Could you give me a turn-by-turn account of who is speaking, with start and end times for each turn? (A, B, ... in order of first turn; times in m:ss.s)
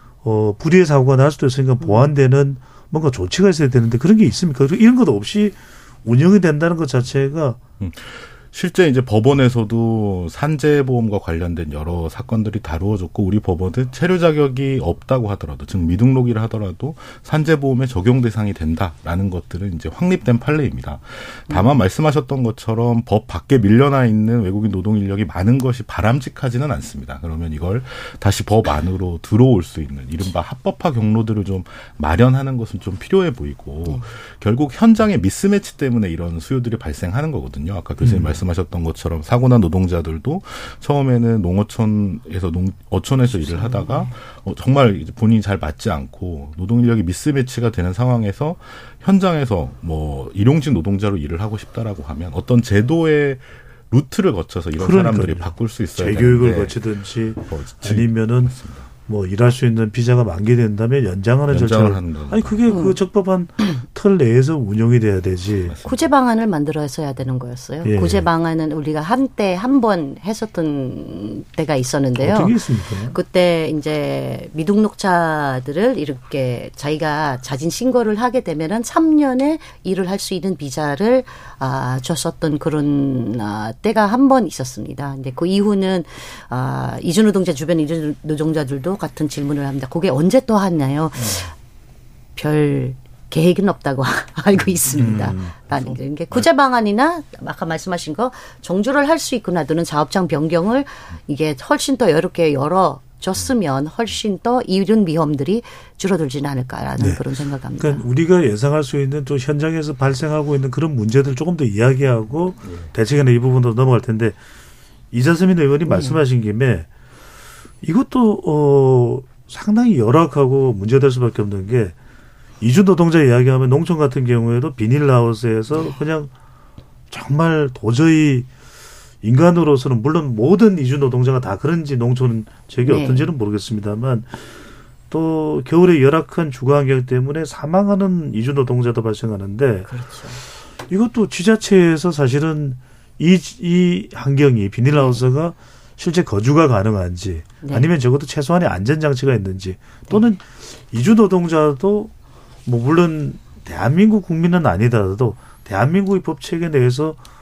0:00.2-0:07.6 A
0:01.8-0:02.1 B
0:07.8-0:56.8 C
0:38.0-0:38.4 A
0:43.5-0:44.1 B
0:54.8-0:58.6 A
0:57.4-0:58.9 C
0:59.1-1:05.8 A
1:01.5-1:02.7 C
1:02.7-1:03.0 B
1:05.6-1:06.0 C
1:05.8-1:12.6 B
1:07.8-1:08.3 A
1:12.2-1:13.2 A
1:13.1-1:31.5 B
1:31.2-1:31.4 A
1:32.4-1:48.0 B
1:34.9-1:36.0 A
1:47.0-1:47.2 A
1:47.8-1:54.4 A
1:55.1-1:56.9 A
1:55.9-1:56.2 B
1:57.8-2:02.0 A
2:02.6-2:06.3 A
2:07.1-2:08.5 A
2:09.2-2:14.3 A
2:12.8-2:13.3 B
2:15.1-2:19.9 A
2:19.9-2:20.4 B
2:20.9-2:32.1 A
2:25.0-2:25.2 B
2:27.6-2:27.9 B
2:32.7-2:37.2 A